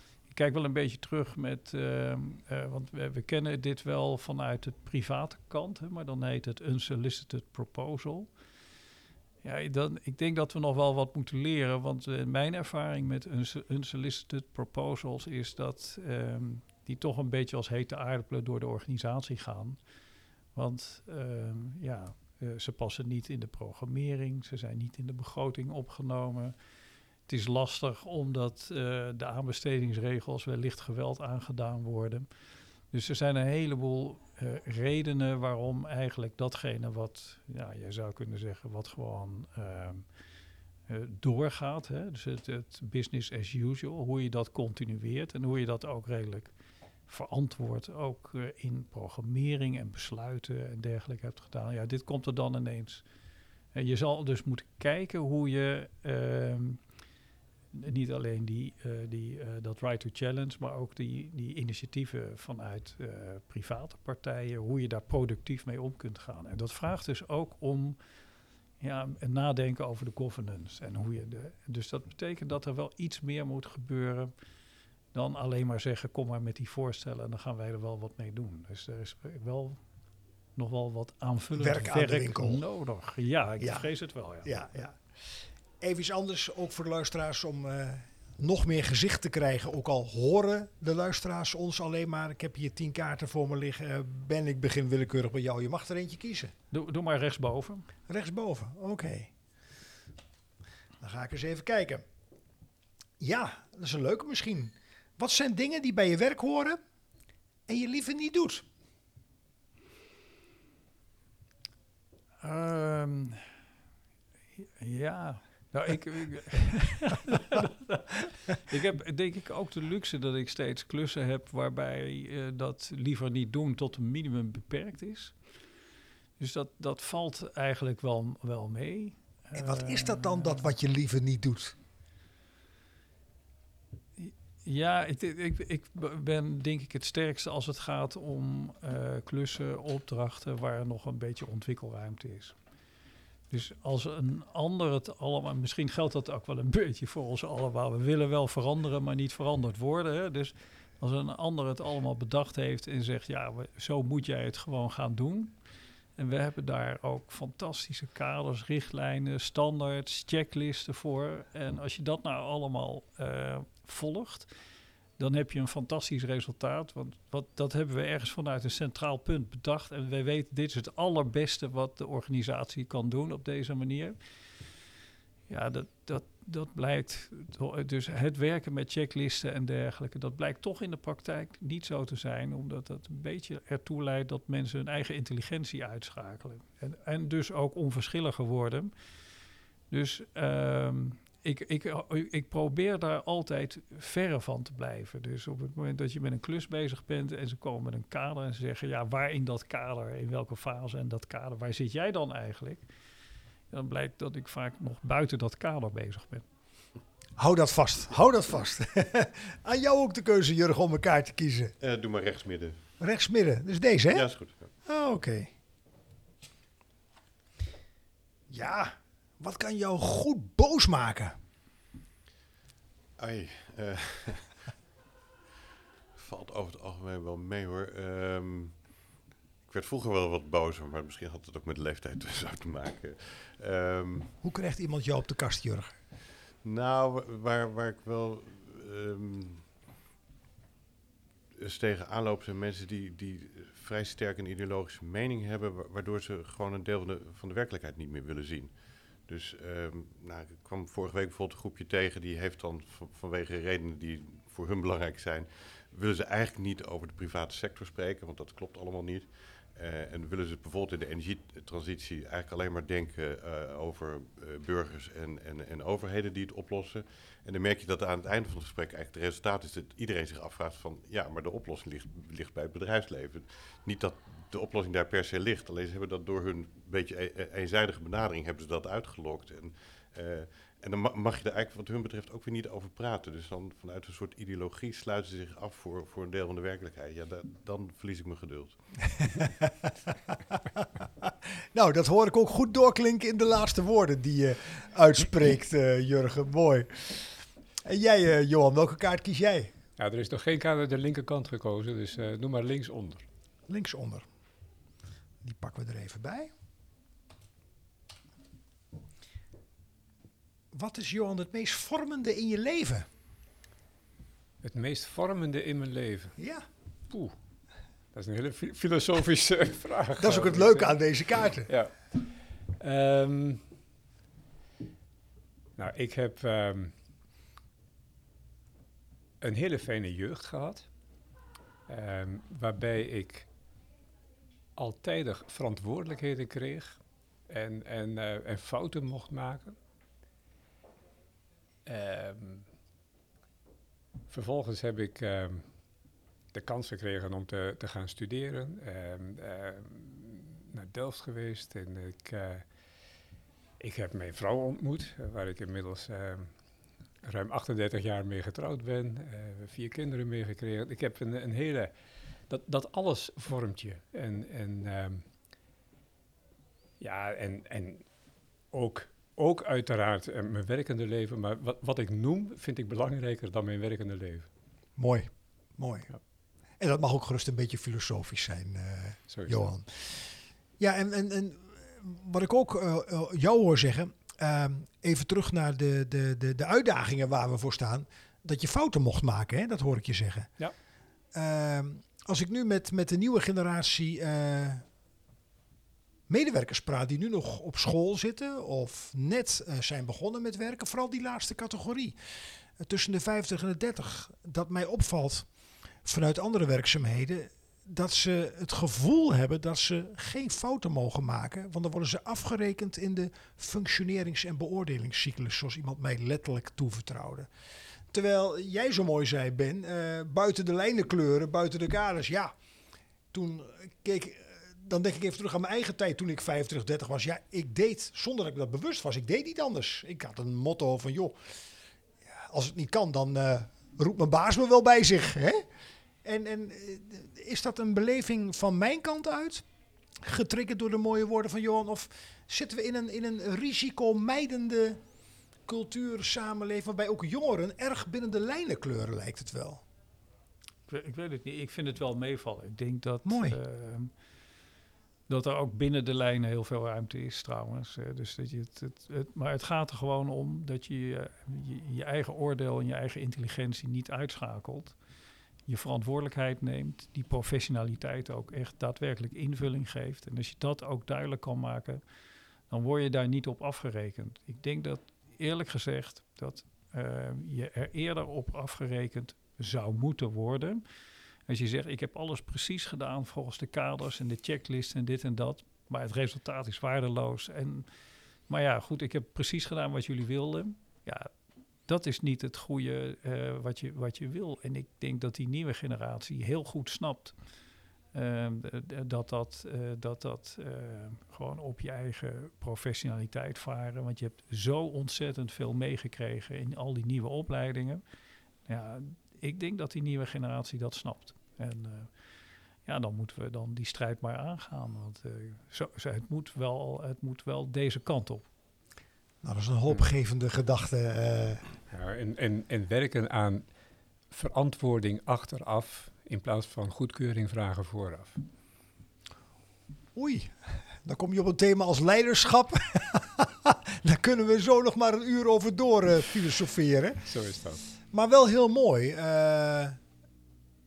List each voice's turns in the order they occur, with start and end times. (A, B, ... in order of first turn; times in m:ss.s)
0:00.3-0:08.3 A
0:09.4-0:19.8 A
0:20.6-0:26.6 A
0:27.3-0:32.3 A
0:32.9-0:40.1 A
0:40.9-0:46.5 A
0:47.1-0:53.0 A
0:53.7-0:56.8 A
0:57.7-1:08.0 A
1:08.8-1:14.3 A
1:15.1-1:19.8 A
1:20.6-1:24.5 A
1:21.6-1:22.6 B
1:23.6-1:23.9 B
1:24.4-1:36.5 B
1:36.7-1:37.9 A
1:38.1-1:39.3 B
1:41.0-1:42.0 B
1:43.2-1:46.8 B
1:47.7-1:48.6 B
1:52.4-1:53.5 A
1:54.6-2:05.4 A
2:06.4-2:10.7 A
2:09.6-2:11.8 B
2:14.2-2:22.6 A
2:23.5-2:35.6 A
2:36.2-2:44.5 A
2:45.2-2:54.2 A
2:55.5-3:08.9 A
3:09.9-3:22.8 A
3:23.7-3:26.5 A
3:27.4-3:31.7 B
3:31.8-3:32.8 C
3:33.0-3:34.3 B
3:34.1-3:34.7 C
3:34.8-3:35.5 B
3:38.5-3:41.4 B
3:43.2-3:44.6 C
3:46.2-3:48.8 C
3:49.7-3:54.3 C
3:54.4-3:55.9 B
3:56.6-3:59.7 C
4:01.6-4:08.7 C
4:09.2-4:49.3 C
4:49.2-4:59.7 B
5:00.0-5:03.2 D
5:03.7-5:04.2 B
5:05.4-5:06.5 B
5:10.7-5:13.1 B
5:14.6-5:16.4 D
5:16.4-5:16.6 B
5:17.1-5:17.4 D
5:18.1-5:21.0 D
5:20.2-5:21.7 B
5:21.7-5:23.6 D
5:25.8-5:26.9 D
5:29.4-5:30.9 D
5:31.9-5:33.5 D
5:34.8-5:39.8 D
5:41.9-5:42.6 D
5:44.3-5:45.7 D
5:46.5-5:52.7 D
5:53.8-5:56.5 D
5:57.2-6:01.9 D
6:02.5-6:05.3 D
6:07.0-6:08.1 D
6:08.7-6:14.5 D
6:15.0-6:16.1 B
6:16.8-6:30.5 B
6:19.3-6:19.7 D
6:31.3-6:34.8 B
6:36.3-6:42.2 B
6:42.8-6:45.5 B
6:46.0-6:57.5 B
6:58.1-7:02.5 B
7:03.3-7:11.6 B
7:12.2-7:15.7 B
7:16.2-7:19.7 B
7:20.2-7:25.0 B
7:25.6-7:29.8 B
7:30.9-7:34.1 A
7:33.2-7:33.6 B
7:35.3-7:45.0 A
7:45.7-7:52.0 A
7:52.7-8:00.8 A
8:01.5-8:07.9 A
8:08.5-8:11.3 A
8:11.9-8:17.4 A
8:18.1-8:28.0 A
8:28.7-8:32.1 A
8:32.8-8:38.5 A
8:39.4-8:41.6 B
8:41.9-8:43.7 D
8:44.3-8:48.4 D
8:50.2-8:57.3 B
8:57.3-8:57.8 D
8:58.1-9:00.0 B